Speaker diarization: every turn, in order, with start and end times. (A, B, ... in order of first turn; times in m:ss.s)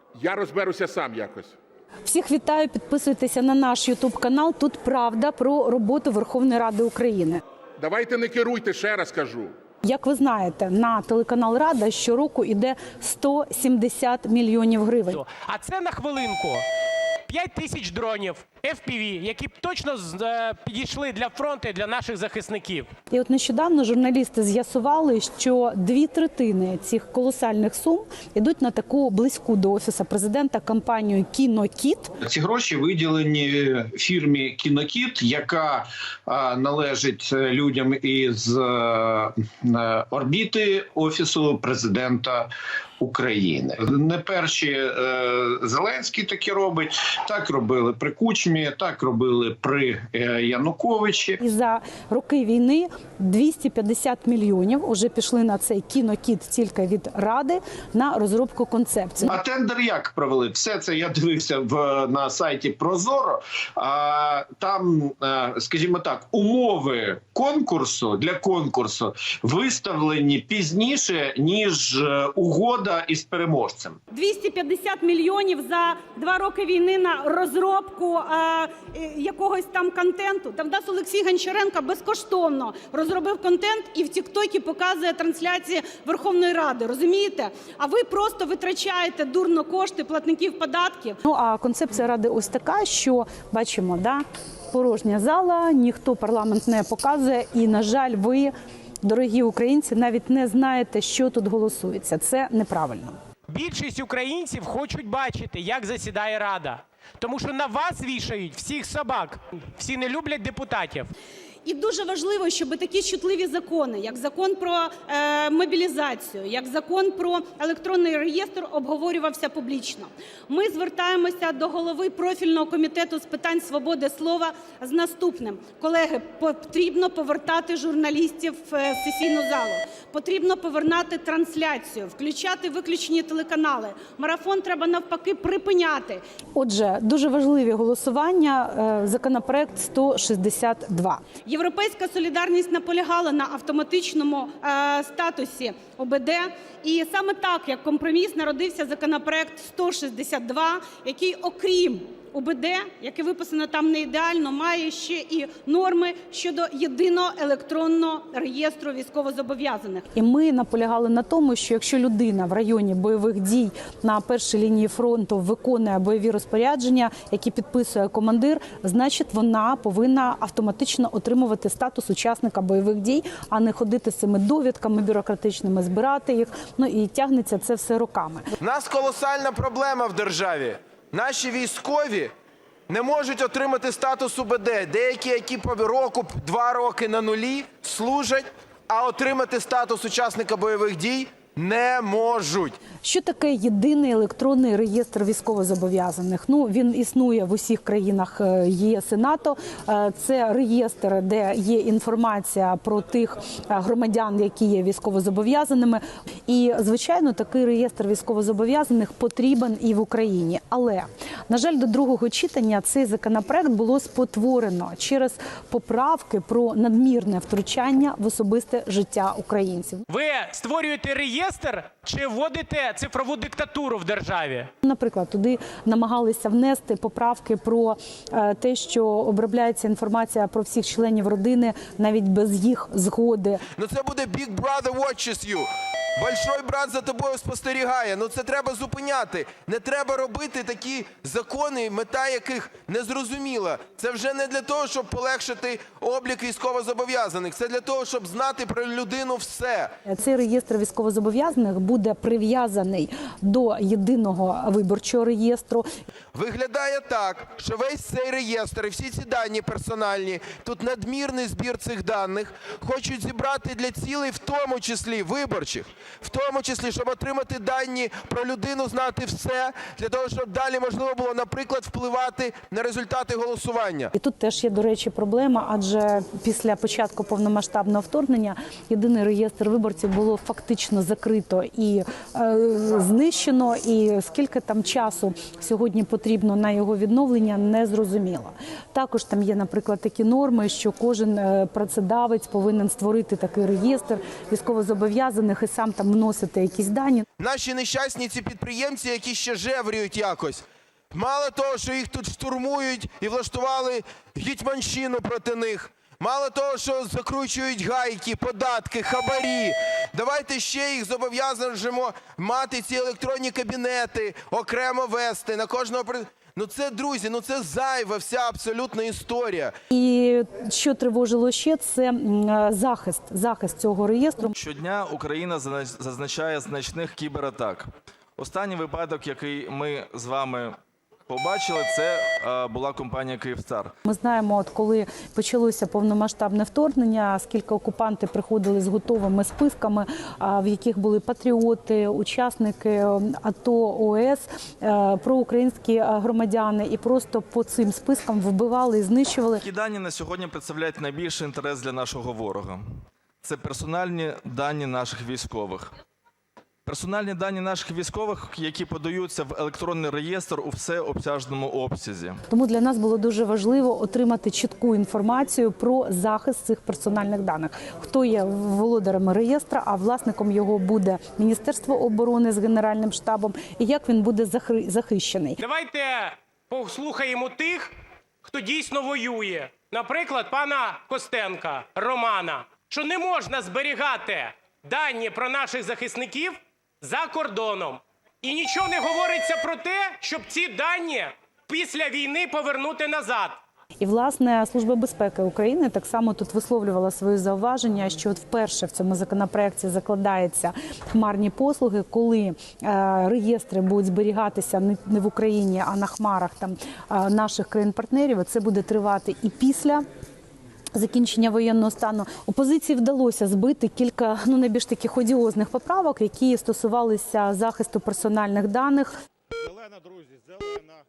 0:00.1-0:01.5 A
0:02.0-0:07.4 B
0:07.8-0:09.5 A
0:09.8-0:15.2 B
0:15.1-0:16.6 C
0:17.3-0:22.9 C
0:23.1-0:32.1 B
0:32.2-0:42.5 D
0:43.0-0:51.4 D
0:51.4-0:59.3 B
0:59.2-1:14.0 D
1:14.1-1:31.2 E
1:31.2-1:38.5 B
1:39.0-1:43.1 B
1:43.5-1:51.1 C
1:51.6-2:16.2 E
2:16.5-2:21.2 B
2:21.4-2:40.1 E
2:40.1-2:58.4 B
2:58.6-3:02.3 F
3:02.9-3:12.8 F
3:13.0-3:40.0 B
3:40.1-3:44.7 C
3:44.8-3:53.6 B
3:53.8-4:09.9 F
4:10.0-4:15.8 B
4:16.3-4:34.1 F
4:34.1-4:57.2 B
4:57.4-5:19.7 F
5:19.9-5:24.5 B
5:24.5-5:33.9 G
5:34.0-5:49.6 B
5:49.6-5:52.8 G
5:53.4-5:55.9 G
5:56.8-6:02.4 G
6:02.5-6:15.6 B
6:15.6-6:17.9 C
6:18.4-6:33.6 C
6:34.0-6:50.0 B
6:50.9-6:59.1 B